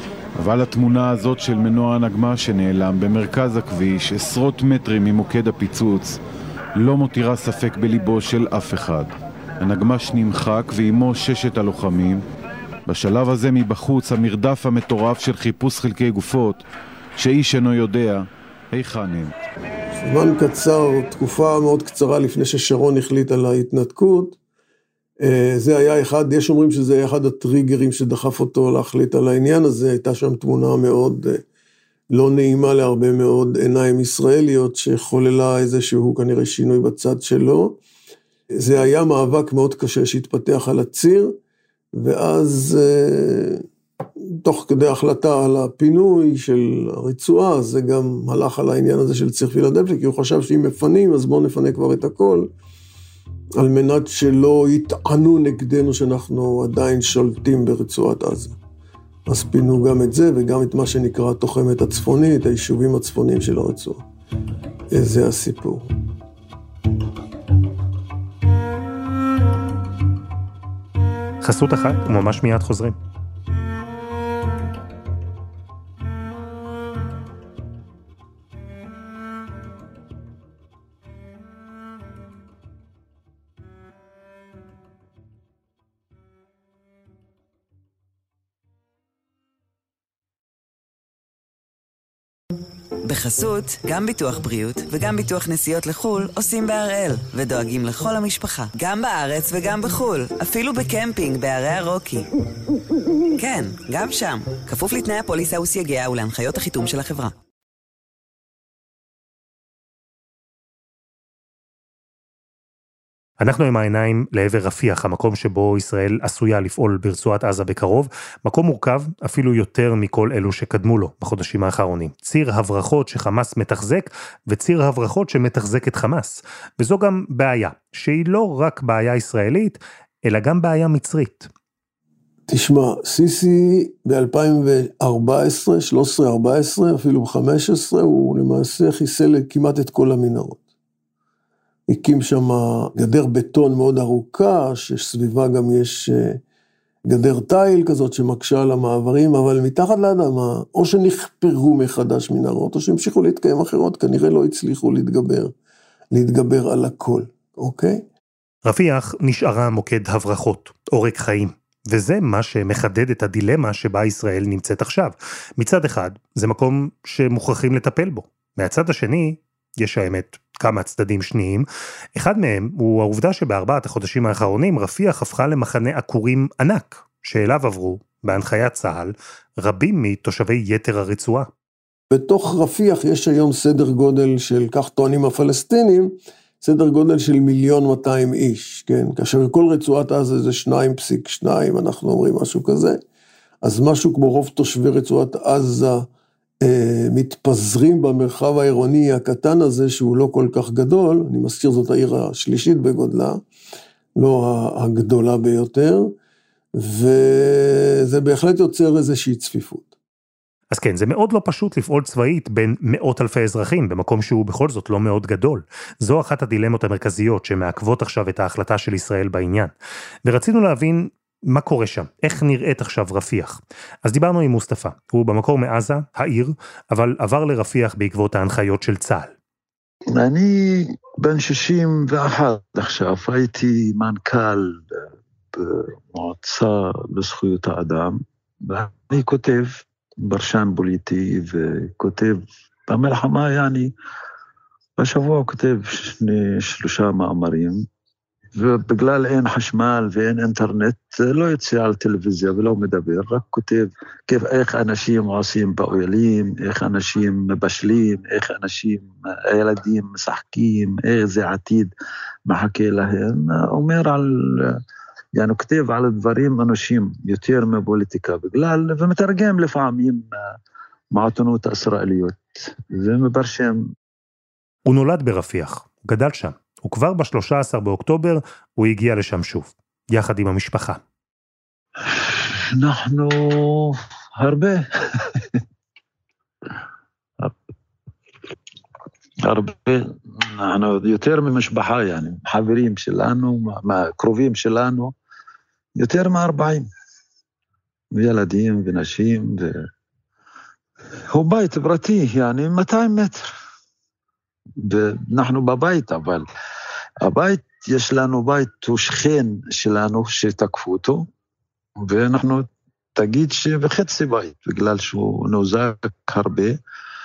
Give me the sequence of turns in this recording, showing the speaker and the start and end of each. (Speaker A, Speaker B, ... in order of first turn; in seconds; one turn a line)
Speaker A: 0.4-6.2
Speaker A: 6.8-12.2
Speaker A: 12.9-16.6
Speaker A: 17.2-19.3
Speaker B: 20.0-24.4
Speaker B: 25.2-31.4
Speaker B: 32.1-37.8
Speaker B: 38.6-41.4
Speaker B: 41.9-43.6
Speaker B: 44.3-52.5
Speaker B: 53.6-58.6
Speaker B: 59.3-64.0
Speaker B: 64.9-65.9
Speaker C: 71.4-73.0
Speaker D: 93.1-102.3
Speaker D: 103.4-107.3
Speaker C: 113.4-131.5
Speaker B: 132.5-140.6
Speaker B: 141.9-146.4
Speaker B: 147.1-155.5
Speaker B: 156.1-158.0
Speaker C: 158.7-181.5
Speaker B: 182.1-193.0
Speaker B: 193.6-196.1
Speaker B: 196.6-203.4
Speaker B: 204.2-206.2
Speaker B: 206.8-209.9
Speaker C: 210.7-219.7
Speaker C: 220.3-229.3
Speaker E: 230.1-243.9
Speaker E: 245.0-247.8
Speaker E: 248.6-261.9
Speaker E: 262.5-264.8
Speaker E: 265.4-270.2
Speaker E: 271.1-273.8
Speaker C: 274.9-281.0
Speaker E: 282.0-285.6
Speaker E: 289.4-295.1
Speaker E: 296.0-296.9
Speaker E: 298.1-299.9
Speaker E: 301.3-303.5
Speaker E: 304.8-306.5
Speaker E: 307.2-311.3
Speaker E: 312.0-316.8